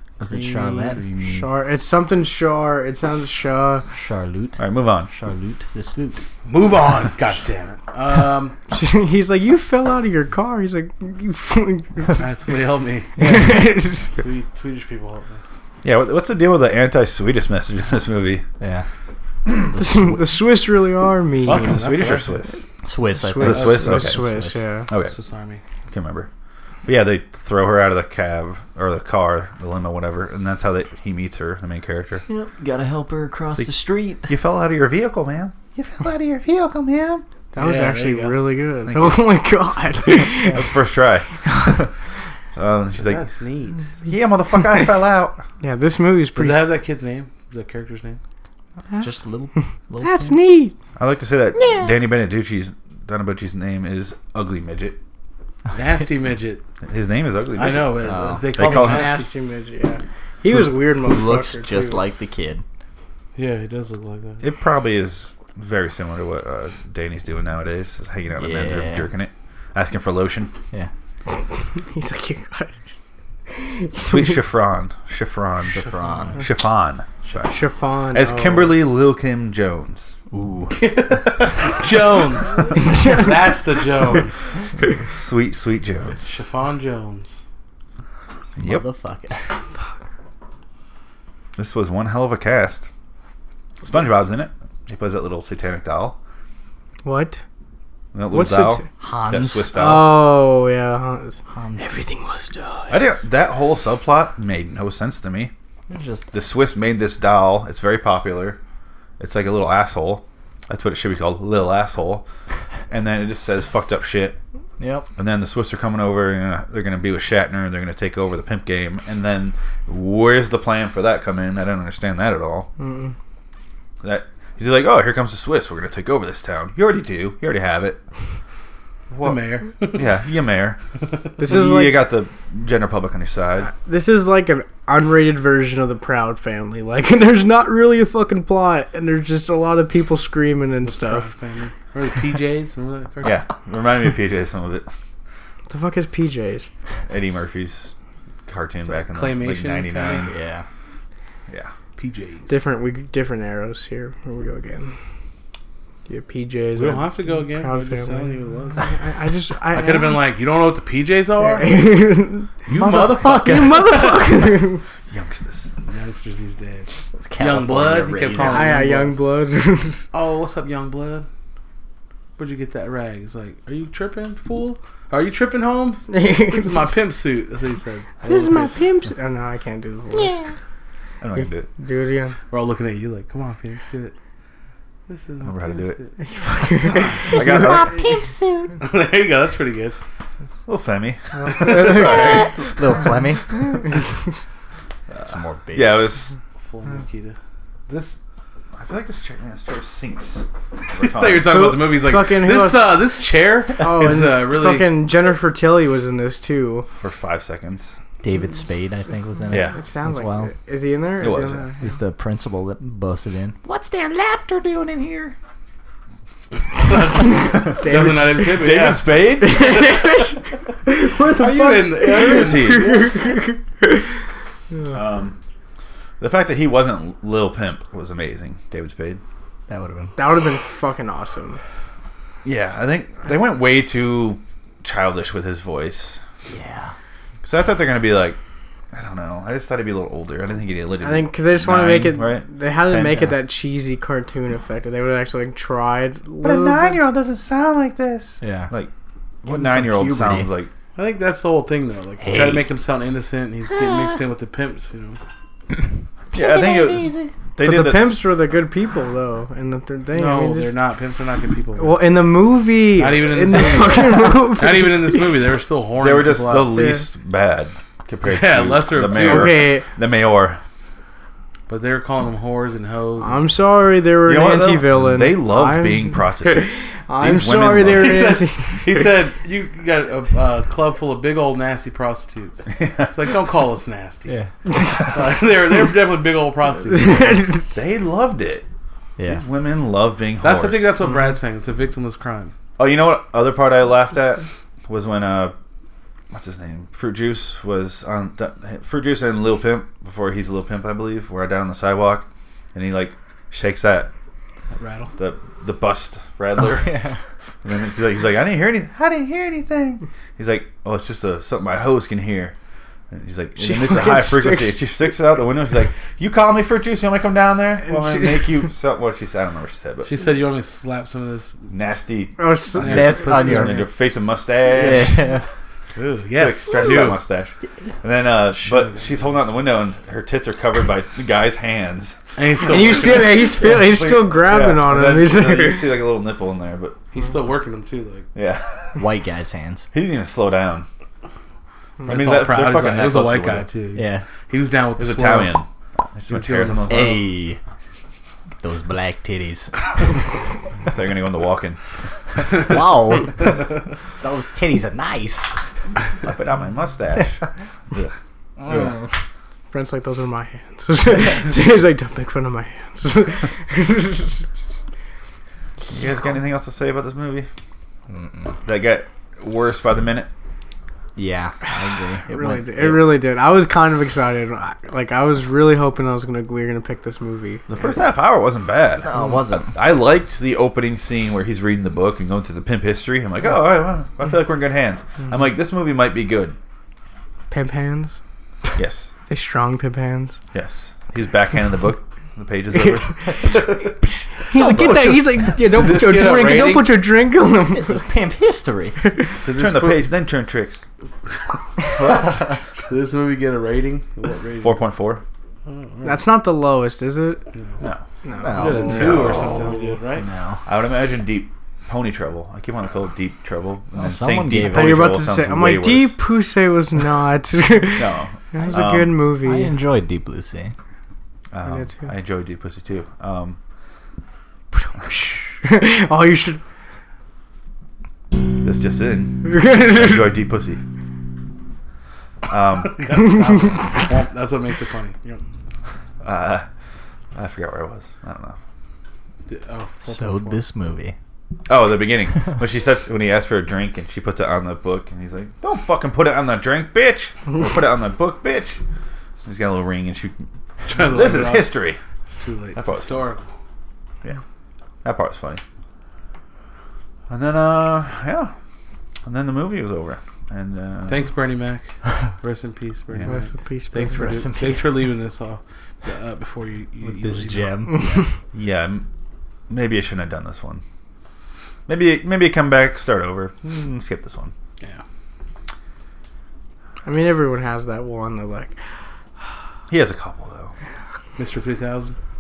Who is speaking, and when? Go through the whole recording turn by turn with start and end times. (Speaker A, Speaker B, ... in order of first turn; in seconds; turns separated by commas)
Speaker A: 0.2-1.4, Speaker B: 1.2-3.9, Speaker A: 3.9-6.2, Speaker C: 4.6-5.1, Speaker D: 6.5-8.5, Speaker B: 8.7-12.2, Speaker D: 12.2-15.4, Speaker A: 13.2-13.6, Speaker B: 13.2-14.1, Speaker C: 15.8-18.4, Speaker A: 18.6-18.8, Speaker C: 19.4-19.7, Speaker A: 19.6-20.2, Speaker B: 19.8-21.8, Speaker D: 21.4-22.4, Speaker C: 21.5-22.6, Speaker A: 22.8-24.6, Speaker B: 23.1-24.9, Speaker C: 23.4-24.2, Speaker C: 24.9-25.1, Speaker D: 25.0-25.6, Speaker C: 25.9-26.3, Speaker C: 26.9-32.2, Speaker A: 32.3-34.4, Speaker C: 34.3-37.2, Speaker B: 37.5-40.6, Speaker D: 37.5-38.4, Speaker C: 38.9-39.2, Speaker C: 40.5-41.9, Speaker B: 41.4-41.8, Speaker C: 42.5-43.2, Speaker D: 42.9-43.9, Speaker C: 44.0-45.4, Speaker B: 45.6-46.7, Speaker D: 46.4-48.2, Speaker A: 49.0-50.4, Speaker B: 50.0-50.7, Speaker C: 51.0-55.0, Speaker D: 55.7-56.6, Speaker C: 56.8-59.0, Speaker D: 57.5-59.3, Speaker A: 58.0-59.0, Speaker B: 58.6-62.0, Speaker A: 60.6-62.6, Speaker D: 63.3-64.4, Speaker C: 64.4-70.5, Speaker A: 68.3-69.1, Speaker B: 71.7-72.9, Speaker B: 73.5-74.4, Speaker C: 74.0-75.8, Speaker A: 75.7-76.4, Speaker D: 75.8-76.4, Speaker C: 76.3-77.5, Speaker B: 77.5-78.8, Speaker C: 78.1-80.1, Speaker A: 80.3-81.2, Speaker D: 80.7-84.5, Speaker B: 82.7-83.4, Speaker C: 85.0-86.2, Speaker D: 86.2-87.4, Speaker C: 88.6-88.8, Speaker A: 88.6-89.4, Speaker C: 91.5-92.9, Speaker C: 93.8-96.2, Speaker B: 97.0-97.4, Speaker C: 98.1-100.2, Speaker B: 98.3-98.8, Speaker A: 99.0-99.8, Speaker B: 99.7-103.1, Speaker A: 101.5-102.0, Speaker C: 102.9-105.5, Speaker A: 105.9-106.3, Speaker C: 106.3-108.6, Speaker C: 109.2-112.2, Speaker C: 112.9-114.4, Speaker A: 114.8-115.1, Speaker C: 115.2-122.7, Speaker B: 122.8-123.1, Speaker C: 124.0-128.0, Speaker D: 129.1-130.1, Speaker C: 129.1-129.4, Speaker C: 129.9-130.8, Speaker B: 131.4-132.0, Speaker C: 131.4-133.7, Speaker B: 133.7-141.3, Speaker D: 140.8-143.4, Speaker C: 143.2-144.9, Speaker B: 145.7-146.7, Speaker C: 147.1-147.9, Speaker C: 148.4-150.3, Speaker D: 148.8-150.2, Speaker A: 150.2-150.6, Speaker D: 152.0-152.6, Speaker B: 152.5-155.0, Speaker B: 156.1-160.3, Speaker D: 156.7-158.9, Speaker D: 159.7-161.9, Speaker B: 161.4-164.8, Speaker D: 162.7-163.9, Speaker A: 162.7-163.9, Speaker C: 162.8-163.5, Speaker C: 165.1-165.7, Speaker D: 165.8-169.2, Speaker A: 167.2-168.9, Speaker B: 168.4-170.1, Speaker D: 170.1-171.3, Speaker D: 172.4-178.8, Speaker B: 176.1-176.9, Speaker B: 178.2-180.5, Speaker C: 181.2-181.7, Speaker B: 181.8-182.3, Speaker D: 182.5-184.1, Speaker D: 185.1-186.1, Speaker C: 185.4-186.0, Speaker B: 186.2-187.7, Speaker C: 187.2-188.0, Speaker A: 187.2-188.8, Speaker D: 188.8-189.9, Speaker C: 190.7-192.7, Speaker B: 191.3-192.5, Speaker A: 191.8-193.8, Speaker C: 195.1-196.3, Speaker A: 195.2-196.1, Speaker D: 196.6-197.3, Speaker C: 197.9-198.2, Speaker C: 198.7-201.8, Speaker D: 200.9-204.9, Speaker B: 201.5-203.0, Speaker B: 203.8-206.9, Speaker C: 206.9-208.0, Speaker A: 208.2-210.5, Speaker C: 209.5-209.8, Speaker B: 209.5-211.9, Speaker C: 211.2-211.7, Speaker A: 211.8-215.3, Speaker D: 216.8-220.2, Speaker B: 217.2-218.6, Speaker C: 217.7-219.9, Speaker B: 219.4-224.1, Speaker D: 221.1-223.2, Speaker C: 222.2-223.0, Speaker C: 224.9-225.4, Speaker C: 226.2-229.2, Speaker A: 229.7-230.1, Speaker B: 230.2-231.6, Speaker C: 232.4-236.2, Speaker A: 236.5-236.9, Speaker C: 237.4-238.4, Speaker C: 238.9-243.3, Speaker B: 241.0-247.0, Speaker C: 246.4-248.9, Speaker A: 248.4-248.7, Speaker C: 249.4-250.7, Speaker A: 249.5-250.5, Speaker D: 250.9-255.2, Speaker A: 252.2-252.6, Speaker A: 253.7-254.2, Speaker A: 256.3-257.3, Speaker C: 256.3-258.2, Speaker B: 257.6-260.7, Speaker D: 260.1-262.1, Speaker B: 261.8-265.4, Speaker D: 262.9-266.8, Speaker C: 266.0-270.6, Speaker B: 266.7-267.1, Speaker D: 268.2-269.7, Speaker B: 269.1-269.9, Speaker D: 271.7-273.5, Speaker B: 273.2-279.1, Speaker C: 274.2-278.2, Speaker D: 277.9-284.4, Speaker C: 282.7-283.1, Speaker D: 285.0-287.5, Speaker B: 286.9-287.6, Speaker C: 287.7-288.6, Speaker A: 289.2-289.4, Speaker C: 289.2-290.9, Speaker D: 290.4-292.5, Speaker C: 292.8-295.5, Speaker C: 296.3-304.1, Speaker D: 304.8-305.1, Speaker C: 305.2-307.0, Speaker A: 306.6-307.2, Speaker C: 307.6-312.5, Speaker C: 313.1-320.1, Speaker B: 313.6-314.9, Speaker B: 317.9-318.3, Speaker D: 320.1-321.7, Speaker C: 321.7-325.2, Speaker B: 322.4-323.4, Speaker D: 322.7-323.9, Speaker A: 322.8-323.9, Speaker A: 324.7-325.4, Speaker D: 325.9-327.2, Speaker C: 326.4-332.2, Speaker D: 328.5-329.5, Speaker D: 332.4-334.2, Speaker B: 332.6-336.0, Speaker C: 334.3-337.0, Speaker D: 337.1-338.3, Speaker C: 338.3-339.0, Speaker A: 338.9-339.9, Speaker C: 339.9-340.9, Speaker C: 342.0-343.7, Speaker D: 342.0-345.6, Speaker A: 343.9-344.2, Speaker C: 345.0-347.3, Speaker D: 346.3-347.2, Speaker A: 346.8-347.6, Speaker A: 348.6-350.1, Speaker C: 350.9-351.8, Speaker A: 352.5-353.6, Speaker A: 354.2-355.6, Speaker C: 356.2-358.1, Speaker A: 358.6-359.1, Speaker C: 358.6-359.0, Speaker B: 359.7-364.5, Speaker C: 365.9-367.5, Speaker A: 368.1-368.5, Speaker C: 368.6-370.3, Speaker A: 371.1-373.2, Speaker B: 372.2-377.7, Speaker C: 377.7-386.6, Speaker A: 379.0-379.7, Speaker B: 387.5-388.2, Speaker C: 388.8-389.1, Speaker B: 389.3-390.4, Speaker C: 390.5-393.6, Speaker B: 392.7-393.8, Speaker B: 394.4-398.0, Speaker C: 394.5-395.2, Speaker D: 395.5-397.1, Speaker A: 397.7-399.0, Speaker B: 399.0-399.4, Speaker D: 399.4-400.1, Speaker C: 399.5-400.8, Speaker D: 402.9-404.8, Speaker C: 404.6-405.2, Speaker D: 405.7-406.2, Speaker B: 406.0-407.4, Speaker D: 407.5-407.8, Speaker B: 408.2-409.1, Speaker A: 408.4-409.5, Speaker D: 408.5-410.3, Speaker C: 408.9-409.7, Speaker A: 410.2-410.6, Speaker C: 410.6-416.2, Speaker A: 413.9-415.1, Speaker B: 414.6-419.7, Speaker C: 417.9-419.1, Speaker A: 419.4-420.7, Speaker C: 421.5-423.6, Speaker B: 421.6-422.0, Speaker B: 424.7-426.6, Speaker C: 428.6-430.8, Speaker B: 429.4-430.2, Speaker C: 432.5-433.0, Speaker D: 432.8-435.4, Speaker C: 436.2-436.6, Speaker C: 437.3-438.6, Speaker D: 439.5-440.6, Speaker A: 440.1-441.1, Speaker C: 441.7-448.8, Speaker C: 449.4-452.0, Speaker D: 450.9-453.5, Speaker C: 452.8-453.1, Speaker C: 455.0-455.6, Speaker C: 457.3-458.5, Speaker C: 459.2-461.2, Speaker D: 461.1-468.0, Speaker B: 463.3-464.2, Speaker A: 464.1-465.0, Speaker A: 467.0-468.3, Speaker C: 468.5-469.1, Speaker C: 469.7-470.8, Speaker C: 471.9-474.5, Speaker B: 477.0-478.8, Speaker C: 479.9-480.7, Speaker D: 481.4-482.1